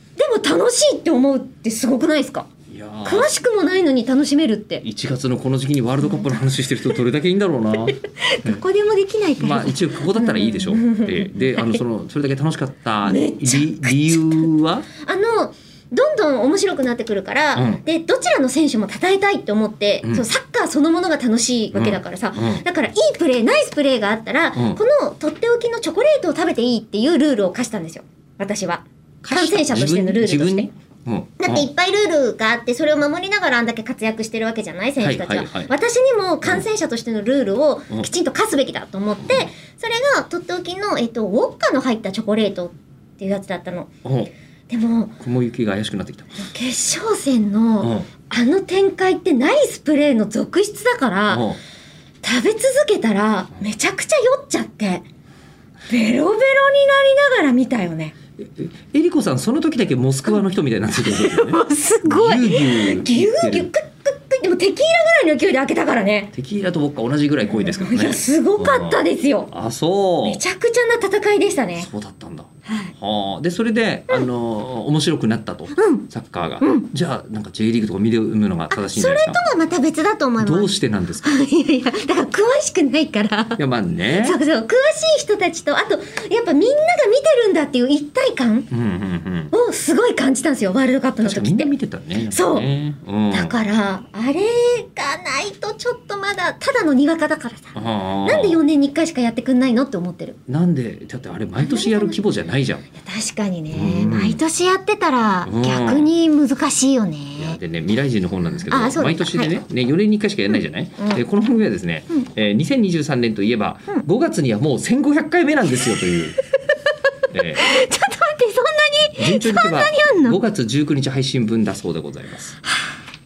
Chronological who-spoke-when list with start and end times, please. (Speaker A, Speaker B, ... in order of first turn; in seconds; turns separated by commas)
Speaker A: 0.2-2.5, Speaker B: 2.7-3.3, Speaker A: 3.0-4.8, Speaker B: 4.8-8.6, Speaker A: 6.0-6.4, Speaker A: 7.9-11.8, Speaker B: 9.4-14.8, Speaker A: 13.0-14.5, Speaker A: 15.0-30.7, Speaker B: 17.5-17.8, Speaker B: 21.7-22.6, Speaker B: 29.2-31.7, Speaker A: 31.4-43.9, Speaker B: 35.0-35.7, Speaker B: 39.2-39.5, Speaker B: 44.0-44.3, Speaker A: 44.7-45.2, Speaker B: 45.2-46.4, Speaker A: 46.4-51.5, Speaker B: 47.8-48.1, Speaker B: 51.3-51.6, Speaker A: 52.2-55.0, Speaker A: 55.9-58.1, Speaker B: 58.4-63.7, Speaker A: 61.0-66.3, Speaker B: 66.3-70.4, Speaker A: 67.4-69.5, Speaker A: 70.2-71.9, Speaker B: 71.8-79.4, Speaker A: 72.7-72.9, Speaker A: 75.7-76.0, Speaker A: 76.6-76.9, Speaker A: 78.7-83.6, Speaker B: 80.4-81.3, Speaker B: 83.6-84.4, Speaker A: 84.1-88.7, Speaker B: 88.7-89.5, Speaker A: 89.5-92.7, Speaker B: 91.2-93.5, Speaker A: 93.3-100.4, Speaker B: 97.8-98.6, Speaker B: 100.5-102.8, Speaker A: 101.6-102.2, Speaker A: 102.9-107.6, Speaker B: 103.7-104.4, Speaker B: 105.4-106.1, Speaker B: 107.4-116.4, Speaker A: 108.7-109.5, Speaker B: 117.3-117.6, Speaker A: 117.6-120.4, Speaker B: 119.2-122.6, Speaker A: 122.7-122.9